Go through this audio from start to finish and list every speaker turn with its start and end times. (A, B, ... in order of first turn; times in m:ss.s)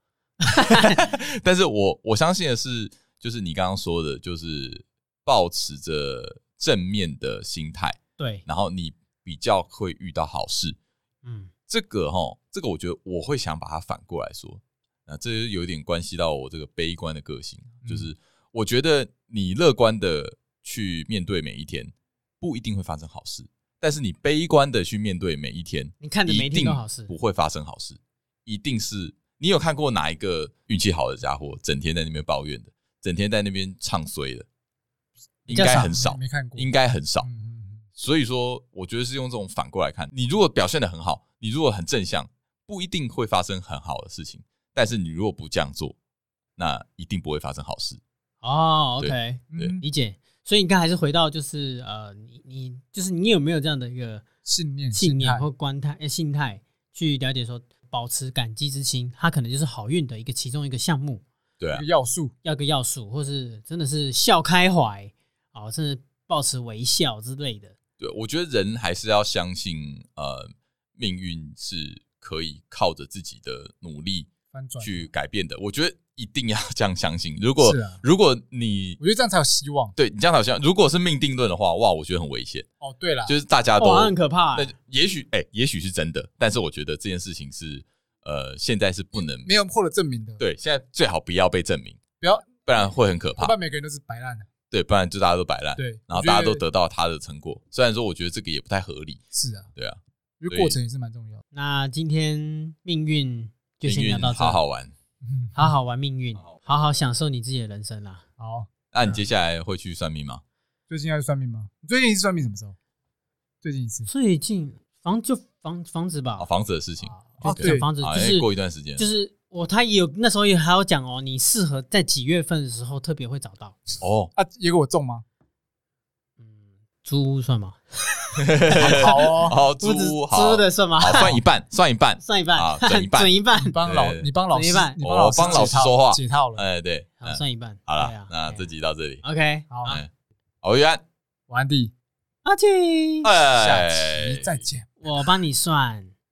0:00.4-0:01.0 A
0:00.6-0:10.8 B
0:08.2-0:08.4 A
0:11.2-0:11.5 A
0:11.7-0:34.5 B
0:17.8-0:18.1 C
0:26.0-0:27.1 A
0:35.5-0:37.3 B
0:35.5-0:36.0 A
0:35.5-0:36.7 C
0:37.2-0:37.8 C
0:38.0-0:46.0 B
0:46.6-0:48.0 B
0:48.4-0:54.3 A
0:49.0-0:49.8 B
0:49.5-0:49.8 C
0:54.4-0:55.5 C
0:54.9-1:01.2 A
1:01.6-1:01.9 B
1:01.7-1:02.3 C
1:02.4-1:07.8 A
1:08.0-1:14.3 B
1:14.5-1:15.1 C
1:14.8-1:19.0 B
1:17.6-1:18.0 C
1:19.0-1:20.0 C
1:20.0-1:22.7 B
1:22.8-1:23.4 C
1:23.3-1:29.5 B
1:23.8-1:24.7 A
1:29.2-1:30.4 C
1:30.4-1:32.0 B
1:32.2-1:32.6 C
1:32.6-1:33.5 B
1:33.4-1:34.5 C
1:34.7-1:39.2 B
1:35.8-1:36.6 C
1:39.3-1:39.7 C
1:39.8-1:40.8 B
1:40.4-1:41.4 C
1:41.5-1:44.6 A
1:43.8-1:44.9 B
1:45.2-1:45.7 C
1:45.6-1:48.2 A
1:48.4-1:49.2 C
1:48.9-1:50.4 B
1:50.9-1:52.8 C
1:53.6-1:54.1 C
1:54.1-1:56.5 A
1:56.4-1:59.1 B
1:57.0-2:03.8 A
1:57.4-1:57.9 C
2:04.0-2:04.3 B
2:04.4-2:05.2 C
2:06.4-2:11.4 A
2:08.4-2:13.3 B
2:08.8-2:09.6 C
2:12.2-2:13.8 A
2:13.6-2:16.7 C
2:13.8-2:14.3 B
2:14.5-2:15.0 A
2:15.0-2:19.2 B
2:17.2-2:18.7 A
2:19.2-2:20.0 A
2:19.7-2:20.0 C
2:19.8-2:20.1 B
2:20.6-2:21.0 B
2:21.5-2:21.9 C
2:22.4-2:23.3 A
2:23.2-2:24.5 B
2:23.5-2:24.9 C
2:25.0-2:26.1 A